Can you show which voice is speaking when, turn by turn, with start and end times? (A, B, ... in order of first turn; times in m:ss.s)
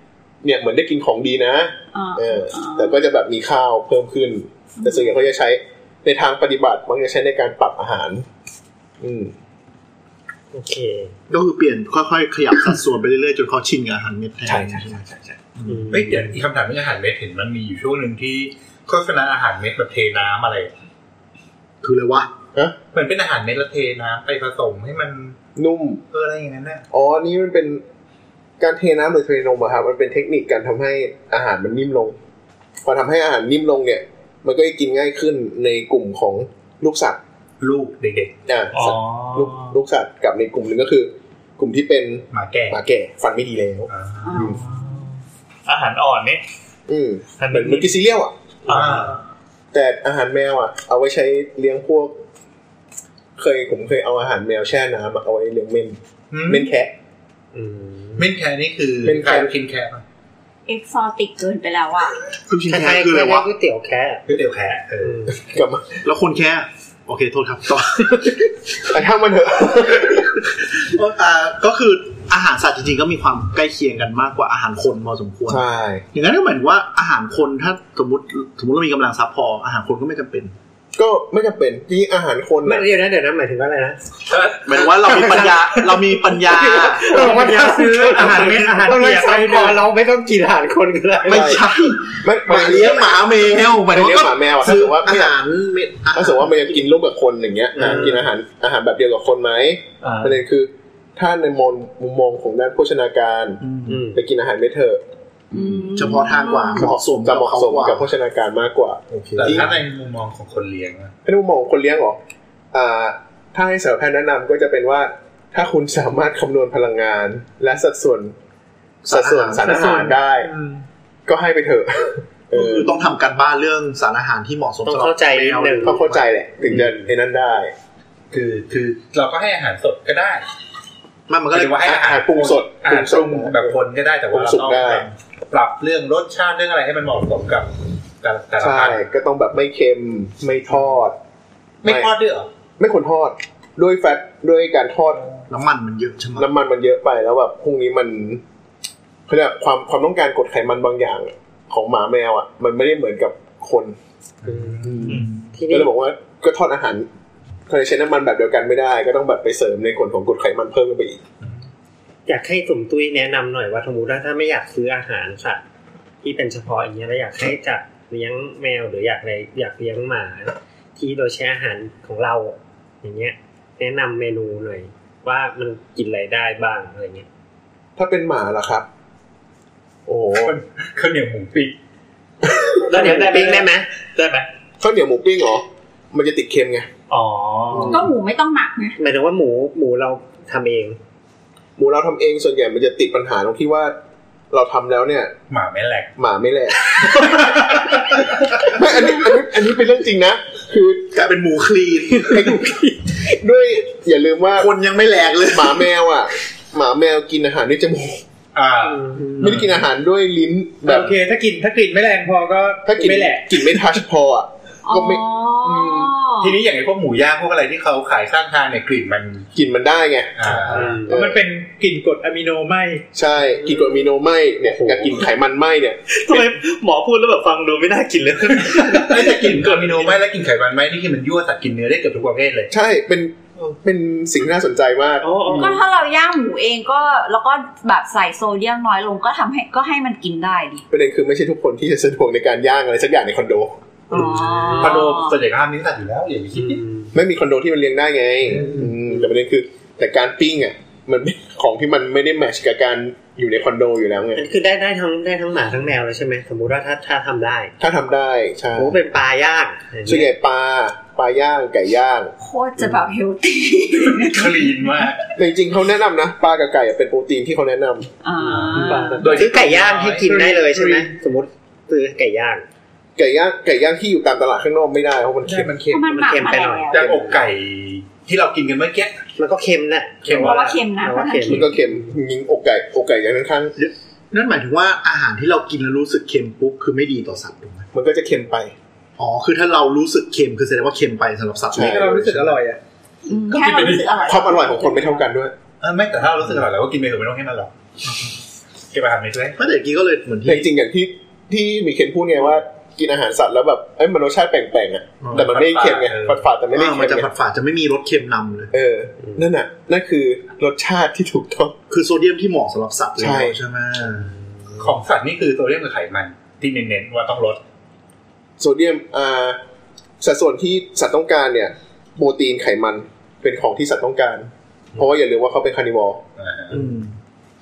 0:00.4-0:08.3 A
0:01.9-0:03.0 B
0:04.8-0:05.2 B
0:09.0-0:09.3 A
0:10.5-0:11.1 C
0:11.3-0:15.0 D
0:14.4-0:15.4 A
0:15.6-0:16.3 D
0:15.7-0:16.2 C
0:15.9-0:20.7 E
0:21.8-0:22.3 D
0:22.9-0:25.4 E
0:25.6-0:26.0 A
0:26.1-0:26.8 E
0:26.9-0:27.8 A
0:28.6-0:32.2 A
0:32.8-0:37.2 A
0:37.6-0:38.3 E
0:38.5-0:44.6 A
0:38.7-0:39.7 F
0:42.3-0:42.8 E
0:43.9-0:44.6 E
0:44.2-0:45.0 B
0:44.4-0:45.1 F
0:45.7-0:46.4 F
0:46.9-0:48.3 A
0:47.4-0:47.9 F
0:48.7-0:49.2 E
0:48.7-0:49.0 C
0:48.7-0:49.1 F
0:49.7-0:52.2 A
0:53.4-0:56.9 A
0:56.3-0:56.7 E
0:57.5-0:58.3 C
0:58.2-1:00.0 E
0:59.0-0:59.5 A
1:00.7-1:02.2 B
1:02.5-1:03.5 D
1:02.7-1:04.2 C
1:04.3-1:05.2 E
1:05.0-1:05.4 C
1:05.3-1:06.0 A
1:06.0-1:08.5 D
1:08.8-1:10.3 A
1:10.4-1:20.5 D
1:15.5-1:16.0 A
1:21.0-1:22.8 A
1:22.6-1:24.0 C
1:24.3-1:24.6 E
1:24.6-1:27.3 D
1:24.7-1:31.7 C
1:27.1-1:29.8 G
1:31.3-1:31.6 A
1:31.3-1:36.8 D
1:32.2-1:35.4 A
1:36.1-1:45.0 A
1:37.7-1:38.3 C
1:37.8-1:38.1 D
1:40.0-1:40.4 F
1:43.6-1:44.0 D
1:43.9-1:44.2 C
1:45.5-1:46.9 B
1:45.6-1:48.1 D
1:46.7-1:49.7 A
1:49.1-1:49.8 D
1:49.4-1:51.1 E
1:51.2-1:52.2 A
1:52.7-1:58.4 A
1:59.0-2:00.2 D
1:59.1-2:00.5 A
1:59.7-2:00.8 G
2:01.3-2:03.0 A
2:02.5-2:06.3 D
2:04.8-2:06.1 C
2:05.8-2:07.7 A
2:08.3-2:10.4 E
2:11.3-2:11.8 D
2:11.5-2:17.7 E
2:11.7-2:13.8 A
2:14.3-2:15.1 A
2:18.2-2:19.0 E
2:18.6-2:21.2 A
2:21.8-2:22.5 E
2:21.8-2:22.1 A
2:22.8-2:25.2 A
2:25.5-2:26.5 D
2:26.4-2:28.4 A
2:29.3-2:34.0 A
2:34.4-2:35.5 E
2:34.5-2:35.9 C
2:34.8-2:37.1 A
2:37.7-2:41.2 A
2:42.3-2:45.6 C
2:46.2-2:57.3 C
2:58.0-2:58.9 A
3:00.1-3:00.5 A
3:00.4-3:01.8 E
3:02.4-3:02.8 A
3:02.9-3:04.5 F
3:02.9-3:03.9 C
3:04.8-3:06.9 A
3:07.1-3:08.1 F
3:07.7-3:08.0 A
3:07.9-3:09.0 B
3:09.0-3:11.0 C
3:11.8-3:14.0 A
3:14.5-3:15.4 A
3:15.5-3:16.1 E
3:16.2-3:21.1 A
3:16.8-3:18.6 E
3:21.1-3:22.6 D
3:22.2-3:24.7 A
3:24.6-3:25.9 D
3:25.4-3:28.2 A
3:28.5-3:29.7 E
3:29.0-3:29.4 C
3:29.2-3:29.7 D
3:29.4-3:31.2 A
3:30.9-3:33.6 G
3:32.8-3:36.1 A
3:34.9-3:36.6 B
3:36.4-3:39.5 E
3:39.6-3:41.4 A
3:40.4-3:41.0 E
3:40.5-3:43.0 G
3:40.7-3:41.1 C
3:43.1-3:46.5 A
3:43.6-3:43.9 C
3:44.7-3:45.1 C
3:46.2-3:50.0 F
3:48.6-3:52.7 E
3:52.7-3:55.8 A
3:55.2-3:55.8 F
3:55.5-4:00.8 B
4:00.9-4:03.8 A
4:04.1-4:05.1 C
4:04.1-4:05.3 B
4:04.7-4:06.8 E
4:06.6-4:07.1 C
4:07.1-4:14.5 A
4:08.5-4:09.3 C
4:14.4-4:17.7 C
4:17.8-4:19.0 A
4:18.8-4:20.3 C
4:20.0-4:22.3 A
4:22.4-4:24.8 B
4:24.0-4:25.2 E
4:25.4-4:28.1 A
4:28.2-4:29.4 B
4:28.4-4:30.3 E
4:28.6-4:31.2 G
4:28.8-4:32.6 C
4:33.2-4:35.7 A
4:35.4-4:36.3 G
4:35.9-4:37.0 B
4:36.0-4:37.3 C
4:36.9-4:39.2 E
4:39.4-4:42.1 C
4:40.2-4:40.8 E
4:40.3-4:41.7 B
4:41.5-4:43.8 A
4:43.8-4:47.9 D
4:47.9-4:48.8 A
4:49.2-4:52.6 D
4:51.7-4:52.1 A
4:51.8-4:52.8 G
4:53.2-4:55.2 B
4:53.4-4:54.4 E
4:54.2-4:55.5 A
4:55.8-4:57.7 E
4:58.0-4:58.4 D
4:58.9-4:59.6 E
4:59.6-5:00.7 D
5:00.4-5:07.3 A
5:05.2-5:05.5 D
5:05.3-5:06.4 E
5:06.7-5:08.7 D
5:08.7-5:11.8 A
5:11.9-5:14.3 D
5:13.2-5:13.6 A
5:14.1-5:14.9 C
5:14.8-5:17.6 E
5:18.6-5:19.6 A
5:20.2-5:26.2 A
5:26.4-5:26.8 E
5:26.7-5:27.2 D